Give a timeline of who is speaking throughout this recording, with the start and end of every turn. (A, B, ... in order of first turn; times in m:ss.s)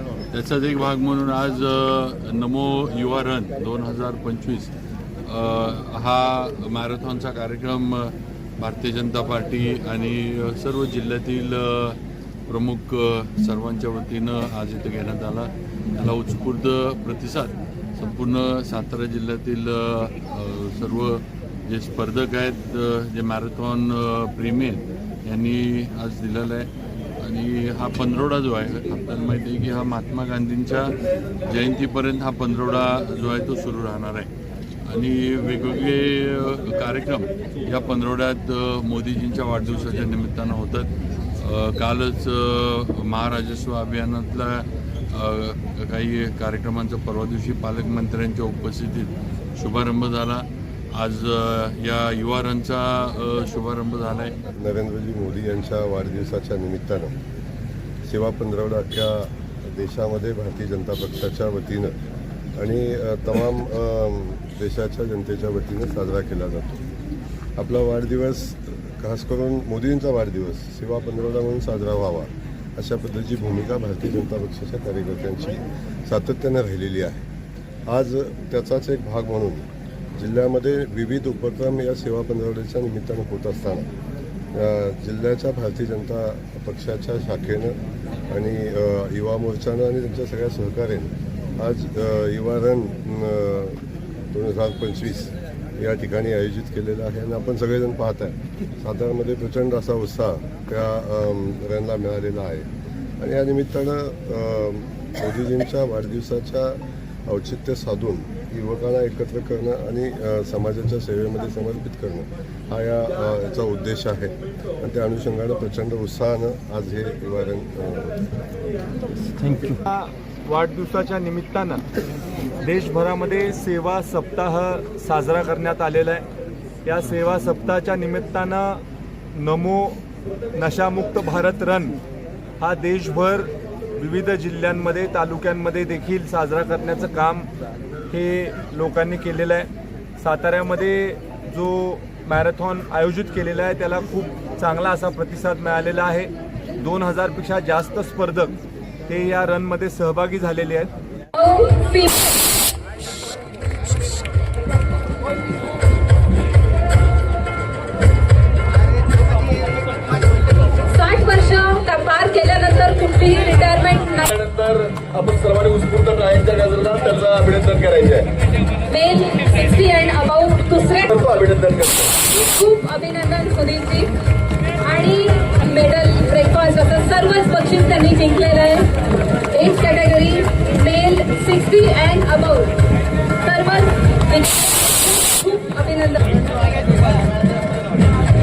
0:00.3-0:04.7 A
0:05.2-0:12.0 A
0:12.5-0:26.7 A
0:27.2-0:34.3 A
0:34.8-0:54.4 A
0:54.5-0:57.1 B
0:58.1-1:02.0 B
1:02.6-1:06.8 B
1:07.6-1:17.2 B
1:17.9-1:23.9 B
1:24.5-1:27.8 B
1:28.3-1:42.7 B
1:43.2-1:58.2 B
1:59.6-2:01.8 C
2:02.6-2:06.2 C
2:06.8-2:08.8 C
2:09.3-2:10.0 C
2:10.5-2:12.0 C
2:12.6-2:17.5 C
2:18.1-2:28.6 C
2:29.1-2:30.9 C
2:31.4-2:32.4 D
2:40.9-2:44.4 D
2:44.3-2:48.3 E
2:48.9-2:51.2 D
2:51.1-2:52.2 E
2:52.2-2:54.1 D
2:54.8-2:58.9 D
2:59.5-3:06.4 D